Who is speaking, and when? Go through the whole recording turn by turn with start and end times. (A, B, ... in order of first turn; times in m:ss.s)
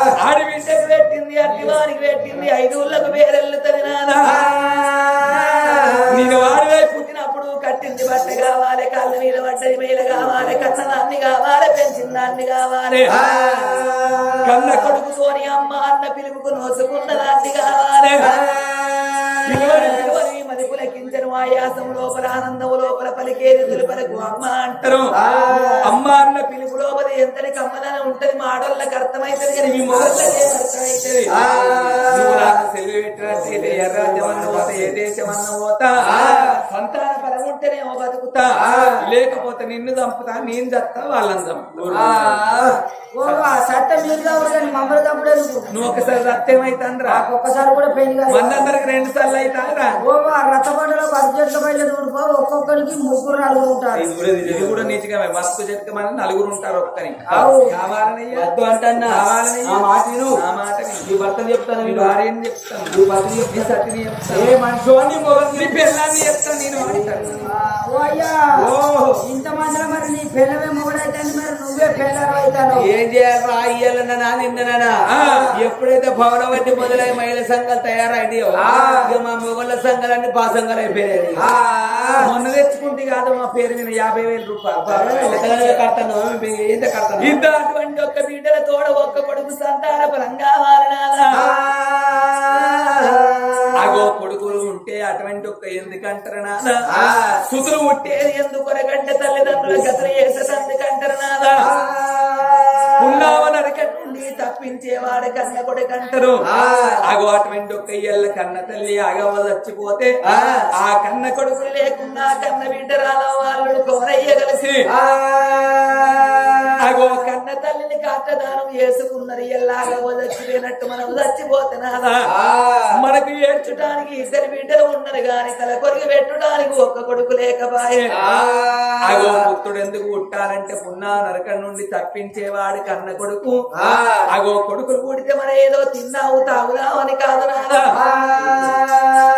0:00.2-0:04.4 A
0:06.1-0:13.1 A
0:14.4-0:18.3 A
0:19.5-0:25.1 A
0:25.3-0:25.8 B
0:25.5-0:25.7 C
0:25.8-0:42.2 A
0:29.7-0:30.4 B
0:31.3-0:32.5 B
0:33.3-0:35.0 B
0:36.1-0:36.5 B
0:38.6-0:38.9 B
0:41.8-0:42.8 B
0:43.1-0:45.7 C
0:45.7-0:47.3 A
0:47.0-0:48.7 C
0:48.3-0:50.0 A
0:50.0-0:54.1 C
0:53.9-0:55.0 B
0:54.4-0:58.5 A
0:57.3-0:57.7 C
0:58.3-1:00.4 B
0:59.1-0:59.8 A
1:00.3-1:01.1 A
1:01.0-1:02.2 B
1:01.8-1:03.0 A
1:02.9-1:03.7 B
1:03.5-1:04.5 A
1:04.3-1:05.9 B
1:05.6-1:07.5 A
1:06.9-1:08.5 C
1:08.6-1:09.2 B
1:09.2-1:12.9 C
1:12.8-1:22.3 B
1:15.1-1:15.5 A
1:22.2-1:25.8 A
1:24.8-1:27.4 B
1:27.2-1:31.3 A
1:31.8-1:33.2 C
1:33.8-1:36.8 A
1:37.5-1:41.6 A
1:42.0-1:42.7 C
1:43.0-1:46.4 A
1:47.0-1:50.1 A
1:50.8-1:54.8 A
1:56.8-2:02.2 A
2:02.4-2:02.8 B
2:02.9-2:08.1 A
2:08.2-2:08.7 B
2:09.0-2:13.6 A
2:14.3-2:17.9 A
2:18.1-2:19.1 C